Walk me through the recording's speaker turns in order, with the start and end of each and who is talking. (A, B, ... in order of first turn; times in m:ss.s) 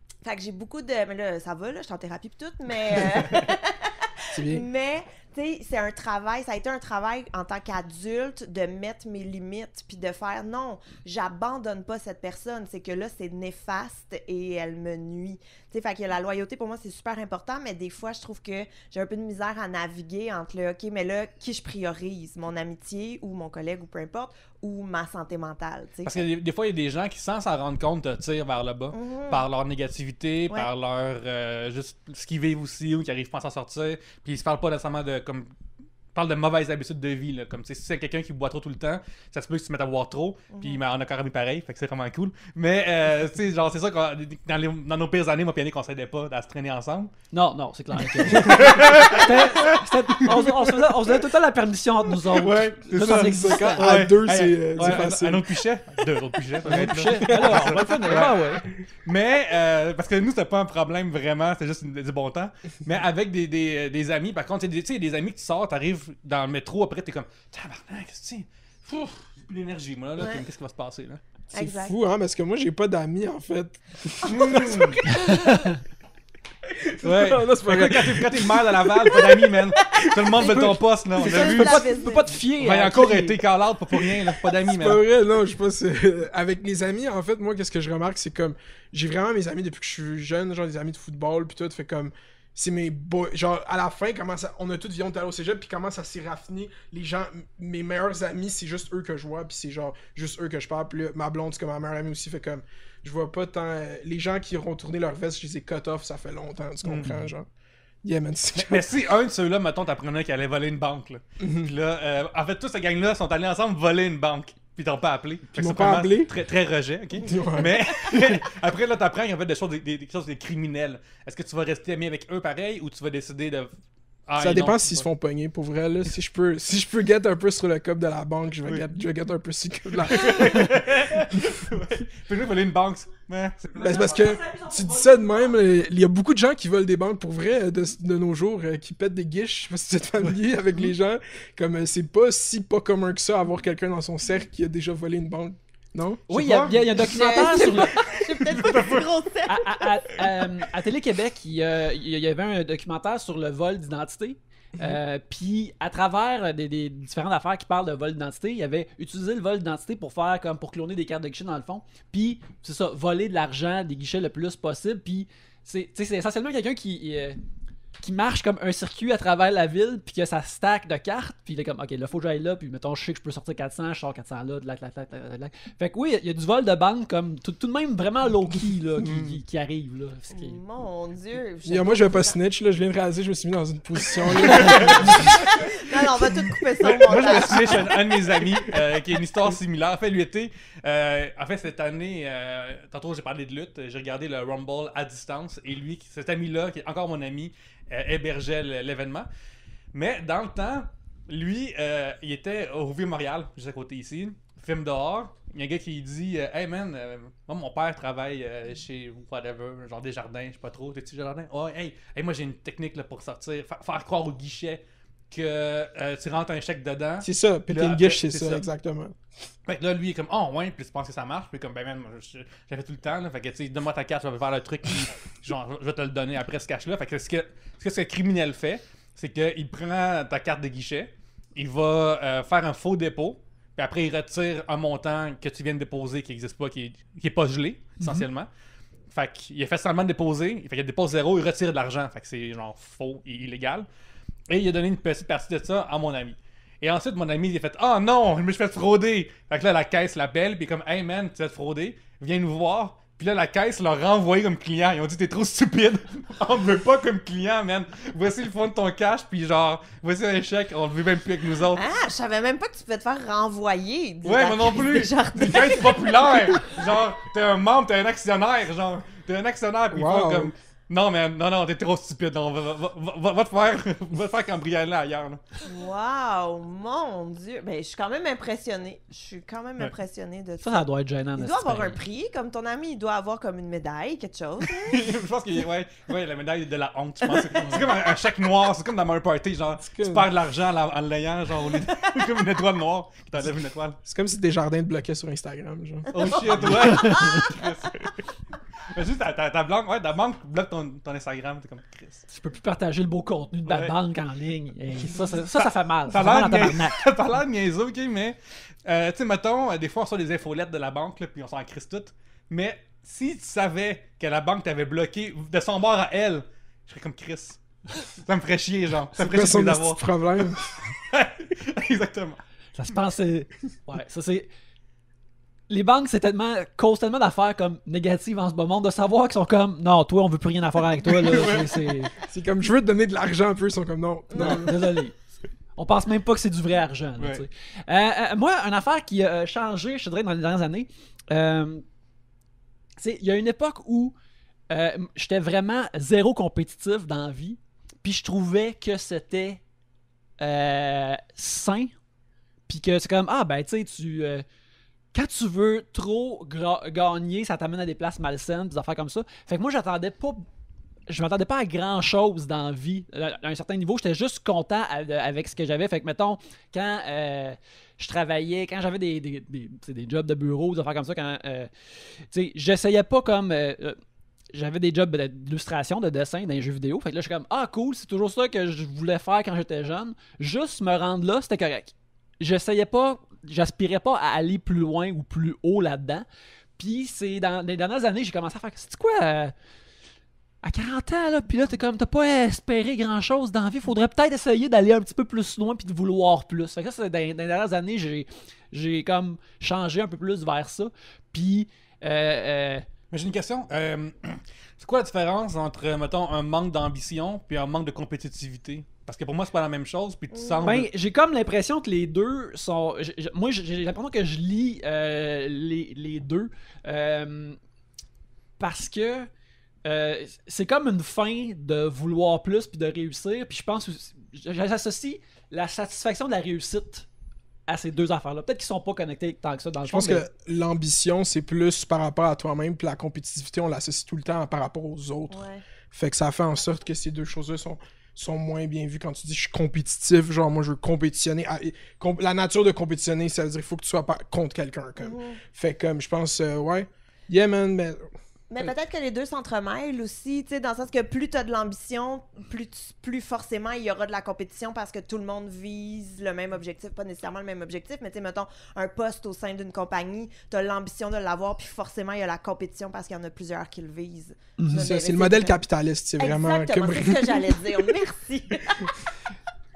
0:00.2-0:26.2 A
0:04.3-0:04.6 B
0:26.0-0:35.5 C
0:28.9-0:29.5 A
0:36.1-0:47.1 C
0:40.5-0:40.8 A
0:47.3-0:53.9 D
0:48.2-0:49.8 C
0:52.3-1:11.2 C
0:53.0-0:55.4 B
0:54.8-0:55.0 D
0:56.6-0:58.4 B
0:56.6-0:58.6 D
1:10.2-1:10.4 A
1:11.5-1:15.0 B
1:11.5-1:12.0 A
1:14.2-1:15.1 C
1:15.1-1:15.7 D
1:17.0-1:19.0 B
1:17.0-1:21.9 C
1:19.2-1:22.3 A
1:21.3-1:23.4 D
1:22.6-1:25.0 C
1:24.7-1:47.5 B
1:46.8-1:47.3 C
1:48.0-1:48.9 B
1:48.6-2:03.7 C
1:51.4-1:51.7 B
1:55.5-1:56.3 B
1:57.2-1:58.4 B
2:04.3-2:05.0 C
2:04.4-2:10.7 B
2:10.0-2:14.2 C
2:13.8-2:15.6 D
2:13.8-2:26.8 B
2:26.3-2:26.8 C
2:26.3-2:28.1 D
2:27.0-2:29.9 A
2:28.4-2:29.0 C
2:29.5-2:47.4 D
2:48.0-3:00.6 D
2:59.0-2:59.4 C
3:00.3-3:02.4 A
3:01.7-3:08.0 B
3:04.5-3:08.1 A
3:04.5-3:05.0 C
3:06.8-3:19.3 C
3:19.9-3:38.6 C
3:37.2-3:39.2 B
3:39.7-3:58.5 C
3:58.0-3:58.2 D
3:59.1-4:03.9 C
4:04.5-4:21.8 C
4:21.7-4:26.8 A
4:24.2-4:35.4 C
4:29.9-4:30.5 B
4:35.6-4:40.8 A
4:40.6-4:42.0 D
4:41.4-4:45.1 A
4:44.8-4:54.0 C
4:47.4-4:47.8 A
4:49.9-4:50.3 B
4:54.0-4:56.8 B
4:56.1-4:58.1 C
4:56.8-4:57.4 D
4:58.9-5:02.2 C
5:02.3-5:07.1 D
5:03.7-5:03.9 C
5:05.6-5:22.4 C
5:19.2-5:20.8 B
5:22.8-5:24.5 D
5:25.7-5:32.1 D
5:31.1-5:31.6 C
5:32.1-5:34.9 B
5:34.4-5:34.6 A
5:34.4-5:35.2 D
5:35.8-5:41.8 D
5:37.2-5:37.4 C
5:43.0-5:44.1 D
5:44.7-5:49.6 D
5:50.4-5:51.9 D
5:52.7-5:54.4 D
5:55.1-6:00.5 D
6:01.1-6:14.0 D
6:14.5-6:26.2 D
6:26.8-6:29.5 D
6:30.6-6:42.9 D
6:43.1-6:50.9 C
6:50.3-6:50.8 A
6:50.6-6:57.6 D
6:58.6-6:59.3 D
6:59.8-7:07.1 D
7:07.7-7:10.3 D
7:09.9-7:28.1 B
7:15.3-7:15.6 A
7:25.0-7:25.4 A
7:28.5-7:45.6 A
7:44.6-7:44.9 D
7:44.7-7:48.0 B
7:46.2-7:49.0 A